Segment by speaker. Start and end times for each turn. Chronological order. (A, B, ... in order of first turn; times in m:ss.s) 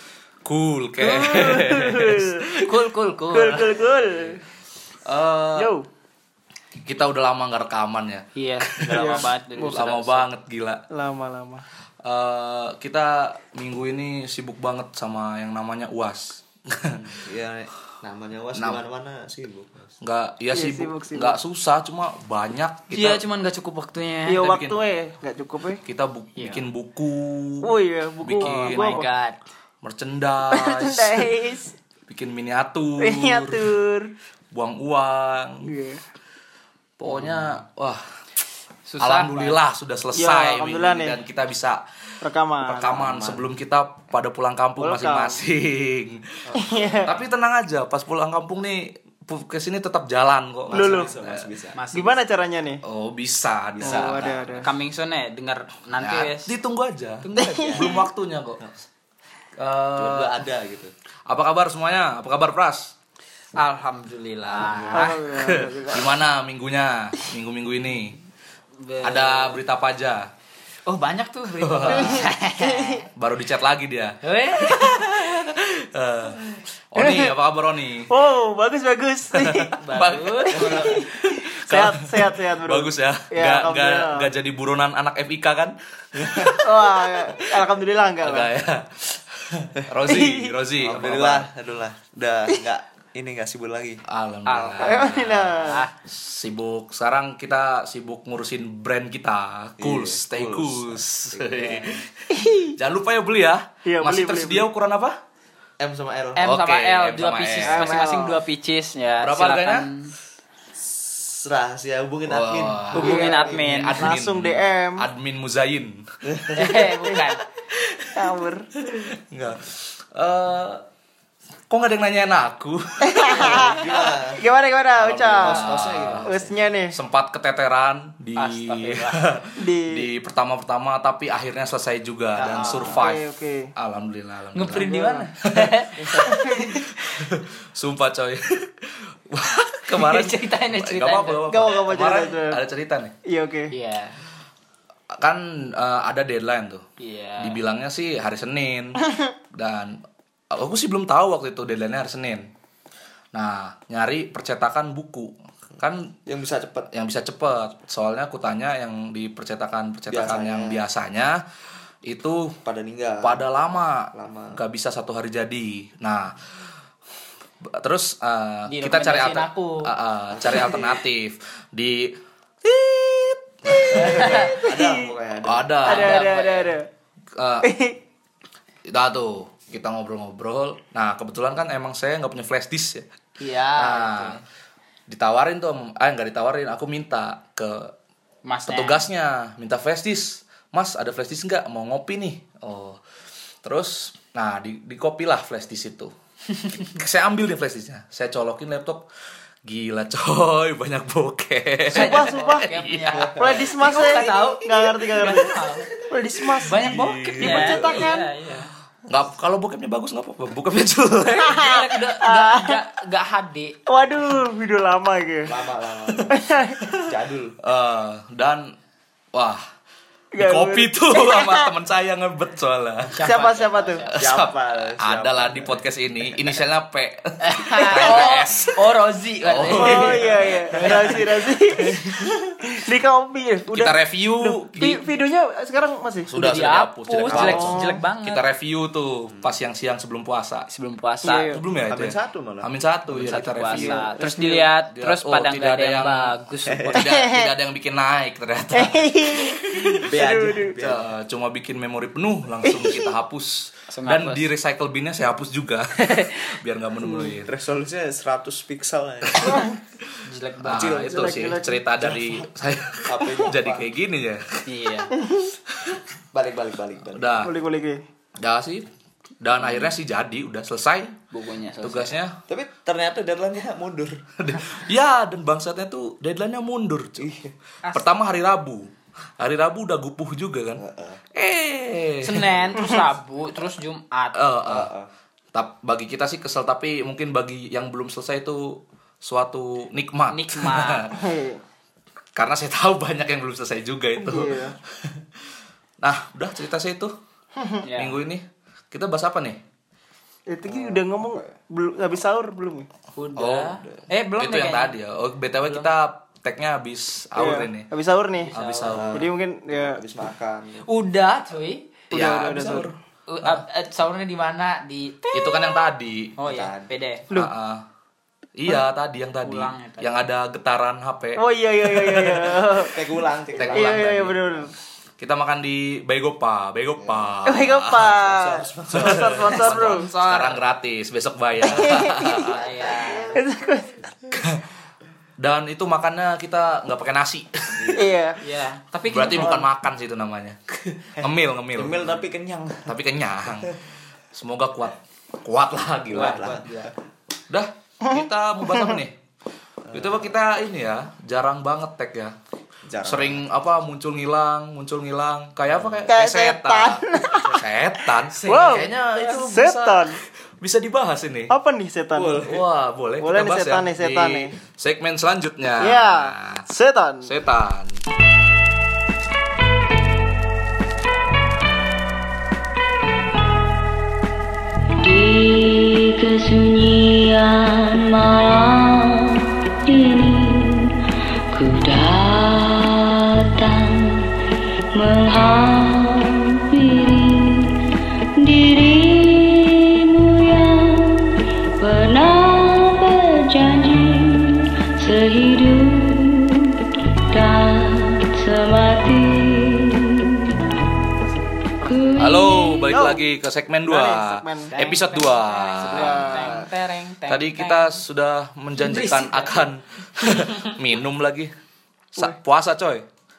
0:00.4-0:02.7 A
0:01.0-0:02.5 B
0:02.6-0:03.8 C
0:03.3-0:04.4 B
0:05.0-0:05.7 A
0:05.6-0:05.9 B
0:06.8-0:10.8 A
0:08.4-0:10.3 C
0:09.0-0:09.2 B
0:10.9-0:11.6 B
0:12.0-0:17.1 A
0:16.9-0:20.0 D
0:18.6-0:18.8 A
0:20.0-0:23.2 A
0:20.5-0:21.4 B
0:22.9-0:24.4 C
0:24.3-0:25.8 B
0:24.4-0:24.8 A
0:25.9-0:29.1 A
0:26.4-0:26.6 C
0:27.6-0:29.1 B
0:28.4-0:29.4 C
0:29.8-0:31.4 A
0:30.5-0:31.7 B
0:32.1-0:33.8 A
0:33.0-0:34.1 B
0:34.5-0:35.7 A
0:35.6-0:36.0 B
0:37.0-0:38.0 A
0:37.1-0:37.6 C
0:38.9-0:39.6 C
0:39.0-0:41.8 A
0:40.2-0:41.2 B
0:42.2-0:43.1 B
0:42.6-0:51.5 A
0:44.8-0:45.4 B
0:46.6-0:47.1 B
0:50.7-0:51.8 D
0:50.7-0:51.1 B
0:51.8-0:52.2 C
0:51.9-0:52.8 B
0:52.8-0:54.5 A
0:53.7-0:54.6 D
0:53.8-0:54.7 B
0:54.6-0:56.5 C
0:56.0-0:58.6 A
0:57.2-0:58.0 C
0:57.4-0:58.0 B
0:59.6-1:00.4 A
1:00.0-1:00.9 D
1:01.3-1:02.9 A
1:03.6-1:05.2 C
1:04.6-1:08.2 A
1:04.9-1:06.1 B
1:08.8-1:09.6 C
1:09.0-1:10.3 A
1:10.9-1:13.1 C
1:11.6-1:12.3 A
1:11.9-1:13.1 B
1:13.2-1:18.1 A
1:14.2-1:15.3 C
1:17.0-1:17.4 B
1:18.1-1:19.8 B
1:19.3-1:27.2 A
1:19.8-1:20.9 C
1:20.5-1:24.3 B
1:26.6-1:28.5 B
1:28.2-1:31.5 A
1:30.1-1:30.5 B
1:30.8-1:34.0 D
1:34.1-1:42.1 A
1:34.5-1:35.9 C
1:34.8-1:35.8 B
1:39.8-1:42.1 D
1:42.3-1:42.8 B
1:42.8-1:45.2 A
1:43.9-1:44.6 B
1:45.8-1:46.4 D
1:46.4-1:50.1 C
1:46.4-1:48.1 A
1:47.6-1:48.4 B
1:49.2-1:49.9 A
1:50.8-1:53.6 D
1:52.3-1:56.0 A
1:52.9-1:54.1 C
1:53.0-1:55.1 B
1:56.2-1:56.8 D
1:56.6-1:57.4 C
1:56.8-1:57.3 B
1:57.9-1:58.1 A
1:58.1-1:58.7 B
1:58.9-2:00.8 A
2:01.7-2:03.8 A
2:03.0-2:05.7 B
2:03.3-2:04.4 D
2:05.0-2:06.5 D
2:05.3-2:14.9 A
2:06.2-2:07.0 B
2:08.4-2:09.2 C
2:09.6-2:10.1 B
2:12.4-2:13.1 C
2:12.6-2:13.7 B
2:14.5-2:16.9 C
2:14.8-2:15.3 B
2:15.5-2:16.3 A
2:16.2-2:16.8 B
2:17.1-2:23.1 A
2:19.9-2:21.4 C
2:21.5-2:22.6 B
2:23.3-2:23.7 B
2:23.7-2:24.2 C
2:25.2-2:26.8 A
2:27.0-2:27.6 C
2:27.4-2:29.0 A
2:29.5-2:32.5 A
2:33.3-2:36.1 A
2:36.3-2:36.9 D
2:36.9-2:41.4 A
2:40.1-2:40.9 D
2:42.0-2:42.6 A
2:42.6-2:43.4 D
2:43.2-2:46.4 A
2:44.1-2:44.6 D
2:47.6-2:52.9 A
2:48.7-2:49.9 C
2:50.3-2:51.0 D
2:53.6-2:54.5 A
2:53.7-2:56.0 D
2:53.9-2:54.5 C
2:53.9-2:55.1 B
2:55.4-2:56.2 A
2:55.8-2:56.9 B
2:55.9-2:56.8 C
2:57.4-2:57.7 A
2:57.6-2:58.0 B
2:58.9-3:03.1 A
3:03.4-3:04.4 C
3:03.8-3:04.4 A
3:05.1-3:07.9 A
3:08.4-3:09.0 C
3:08.7-3:13.0 A
3:13.6-3:16.1 A
3:16.8-3:19.1 A
3:19.6-3:23.3 A
3:21.9-3:22.7 B
3:21.9-3:25.9 C
3:23.2-3:23.6 D
3:23.3-3:25.5 B
3:26.1-3:26.9 B
3:26.6-3:28.7 C
3:26.7-3:28.2 A
3:27.4-3:28.3 B
3:29.1-3:31.6 A
3:31.5-3:33.8 C
3:31.5-3:32.8 B
3:33.9-3:35.5 B
3:35.5-3:36.3 D
3:36.3-3:37.0 B
3:37.0-3:37.6 D
3:37.6-3:38.8 A
3:39.3-3:39.6 A
3:40.3-3:41.7 B
3:40.4-3:43.2 A
3:43.1-3:44.1 C
3:43.2-3:44.1 B
3:44.2-3:48.8 A
3:44.2-3:45.8 D
3:46.3-3:46.6 D
3:47.4-3:51.1 C
3:47.9-3:48.2 B
3:49.4-3:52.0 A
3:49.7-3:56.3 B
3:53.7-3:55.0 A
3:56.3-4:00.7 A
3:56.4-3:58.4 C
3:57.3-3:58.0 B
4:00.7-4:01.5 C
4:01.2-4:01.6 B
4:01.2-4:04.1 A
4:01.9-4:02.7 D
4:03.1-4:07.0 C
4:03.7-4:04.7 B
4:04.9-4:06.3 A
4:06.7-4:07.1 D
4:06.9-4:10.1 A
4:07.0-4:07.5 B
4:08.7-4:10.8 B
4:10.0-4:11.1 D
4:10.8-4:17.5 A
4:12.7-4:13.1 B
4:13.9-4:14.4 C
4:16.0-4:16.5 C
4:17.4-4:19.7 D
4:19.4-4:24.6 A
4:19.4-4:19.8 B
4:20.2-4:21.0 C
4:20.8-4:21.8 B
4:22.0-4:22.5 D
4:23.0-4:23.9 D
4:24.7-4:25.1 C
4:25.2-4:25.5 B
4:26.3-4:27.5 D
4:27.1-4:27.5 A
4:27.4-4:28.0 B
4:28.4-4:28.9 A
4:29.4-4:31.2 A
4:31.3-4:32.1 C
4:31.8-4:32.4 A
4:32.5-4:34.2 D
4:34.4-4:37.3 A
4:37.2-4:37.5 D
4:37.8-4:38.1 C
4:37.9-4:40.8 A
4:40.8-4:41.2 D
4:41.4-4:42.6 A
4:42.2-4:44.4 C
4:44.3-4:44.9 A
4:44.6-4:45.1 D
4:45.5-4:51.2 A
4:50.3-4:51.0 C
4:51.1-4:51.6 B
4:52.4-4:55.2 A
4:54.2-4:54.8 B
4:56.0-4:57.1 A
4:57.6-4:57.8 B
4:57.8-4:58.2 C
4:58.0-4:59.6 A
5:00.5-5:02.9 B
5:00.7-5:01.5 D
5:03.2-5:05.0 C
5:03.4-5:03.8 A
5:04.4-5:07.9 A
5:07.4-5:08.5 B
5:08.4-5:09.1 C
5:08.5-5:09.3 A
5:08.9-5:10.9 D
5:09.2-5:10.0 B
5:10.8-5:11.9 C
5:12.1-5:12.9 B
5:12.1-5:13.6 A
5:13.3-5:15.4 C
5:15.3-5:16.3 A
5:16.4-5:17.2 C
5:16.4-5:16.9 D
5:17.3-5:17.8 A
5:18.6-5:22.6 A
5:19.4-5:20.2 C
5:21.4-5:23.0 B
5:22.8-5:24.6 D
5:23.6-5:24.4 A
5:23.7-5:24.7 B
5:25.2-5:32.6 A
5:27.0-5:27.4 D
5:27.5-5:30.1 B
5:28.1-5:29.6 D
5:29.8-5:30.6 C
5:31.6-5:32.5 B
5:32.4-5:33.4 C
5:32.7-5:33.4 D
5:33.3-5:34.1 B
5:34.4-5:34.6 A
5:35.4-5:37.9 A
5:37.8-5:38.1 D
5:37.9-5:38.4 B
5:38.4-5:39.6 C
5:39.1-5:42.2 A
5:39.4-5:39.6 D
5:41.8-5:43.0 D
5:42.9-5:43.8 A
5:44.3-5:46.9 A
5:46.1-5:46.9 D
5:46.2-5:46.7 C
5:47.5-5:49.2 A
5:49.9-5:50.2 D
5:49.9-5:52.4 A
5:52.8-5:53.4 D
5:53.0-6:01.5 A
5:55.7-5:56.1 D
5:56.1-5:57.6 B
5:58.4-6:00.2 B
6:01.5-6:02.4 B
6:02.1-6:02.6 D
6:02.4-6:06.7 A
6:03.2-6:04.5 B
6:05.8-6:07.3 B
6:07.2-6:08.0 A
6:15.0-6:21.0 E
6:21.5-6:24.3 E
6:24.9-6:27.8 E
6:28.4-6:40.5 E
6:41.8-6:43.0 E
6:42.2-6:46.5 A
6:42.9-6:43.3 B
6:43.9-6:44.7 B
6:44.7-6:48.0 C
6:45.8-6:46.7 B
6:47.3-6:51.5 A
6:48.8-6:49.6 C
6:50.2-6:50.7 C
6:52.1-6:53.0 A